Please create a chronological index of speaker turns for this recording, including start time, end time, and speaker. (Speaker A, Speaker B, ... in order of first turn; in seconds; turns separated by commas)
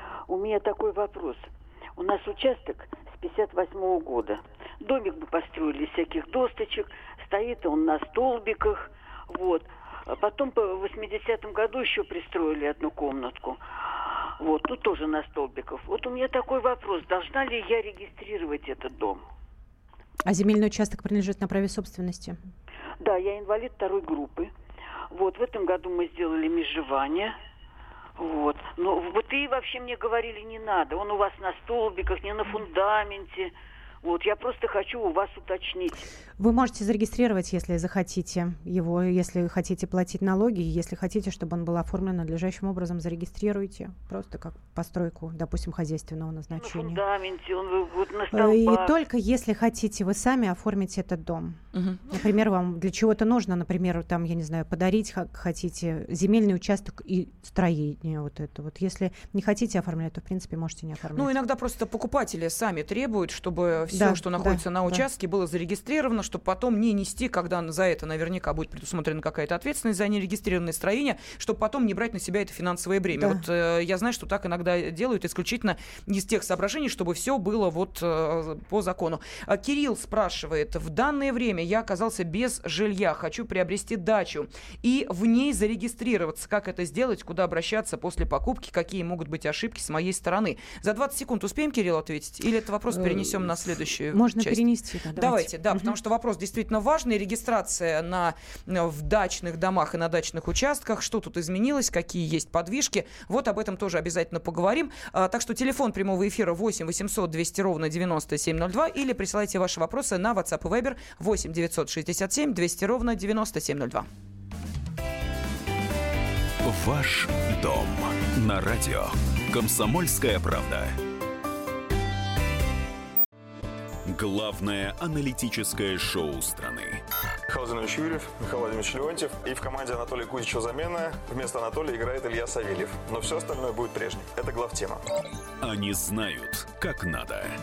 Speaker A: 0.3-13.6, Speaker A: 14.4-19.2, Speaker B: 20.2-22.4, Speaker A: 23.0-24.5, Speaker A: 25.1-27.4, Speaker A: 28.2-36.1, Speaker B: 36.4-47.0, Speaker A: 46.6-48.9, Speaker B: 48.3-51.6, Speaker C: 51.7-52.0, Speaker B: 52.1-61.3, Speaker C: 61.1-94.6, Speaker B: 63.9-65.0, Speaker B: 73.2-73.4, Speaker B: 92.9-95.9, Speaker C: 95.2-114.1, Speaker D: 116.6-121.0, Speaker D: 124.1-127.0, Speaker E: 127.5-135.0, Speaker D: 135.6-137.5